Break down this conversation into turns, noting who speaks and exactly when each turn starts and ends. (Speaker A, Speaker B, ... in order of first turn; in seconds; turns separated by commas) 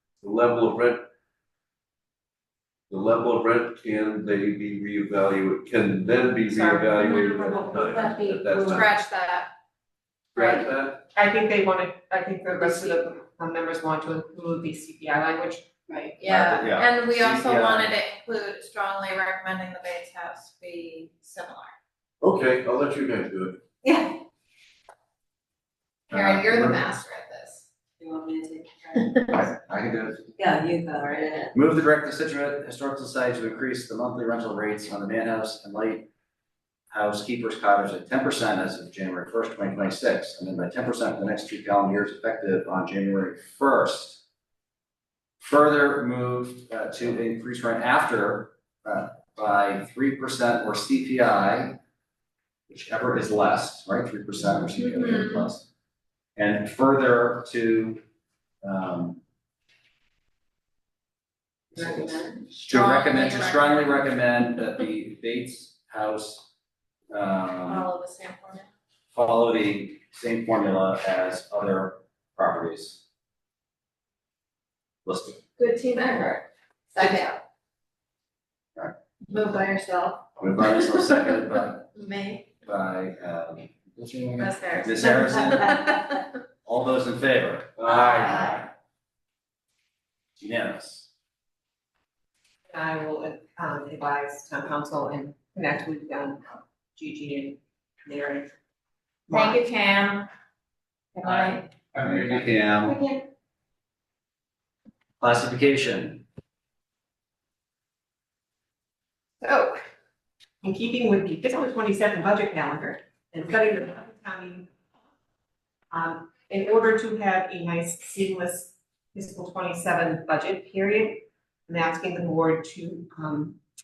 Speaker A: 0.2-1.0, Speaker A: 2.9-8.9, Speaker B: 6.5-7.8, Speaker C: 7.3-8.9, Speaker D: 8.7-9.5, Speaker A: 10.3-11.0, Speaker D: 10.4-10.7, Speaker B: 11.1-15.7, Speaker C: 15.9-16.2, Speaker D: 16.2-21.7, Speaker E: 16.2-17.9, Speaker A: 22.2-23.6, Speaker D: 23.8-24.1, Speaker D: 26.1-27.7, Speaker E: 26.1-26.8, Speaker C: 28.0-29.2, Speaker E: 29.3-30.3, Speaker C: 30.4-31.6, Speaker E: 31.5-36.1, Speaker E: 36.9-44.2, Speaker E: 45.4-51.8, Speaker E: 52.7-55.7, Speaker D: 54.9-55.5, Speaker E: 56.4-58.0, Speaker E: 58.6-59.2, Speaker E: 61.8-66.5, Speaker C: 61.8-62.3, Speaker D: 62.7-64.0, Speaker E: 67.1-67.9, Speaker D: 67.7-68.7, Speaker E: 69.1-73.0, Speaker E: 75.0-75.4, Speaker D: 75.6-77.4, Speaker D: 79.4-79.9, Speaker E: 80.4-81.8, Speaker D: 81.9-82.5, Speaker E: 82.6-85.9, Speaker D: 84.4-86.2, Speaker E: 86.7-88.6, Speaker D: 87.8-88.7, Speaker E: 90.4-91.1, Speaker B: 92.7-98.5, Speaker B: 99.3-99.6, Speaker D: 99.3-100.3, Speaker D: 101.2-101.7, Speaker E: 102.0-103.0, Speaker D: 102.9-103.2, Speaker E: 105.2-106.2, Speaker B: 109.4-109.8, Speaker B: 110.6-114.7, Speaker B: 115.9-123.6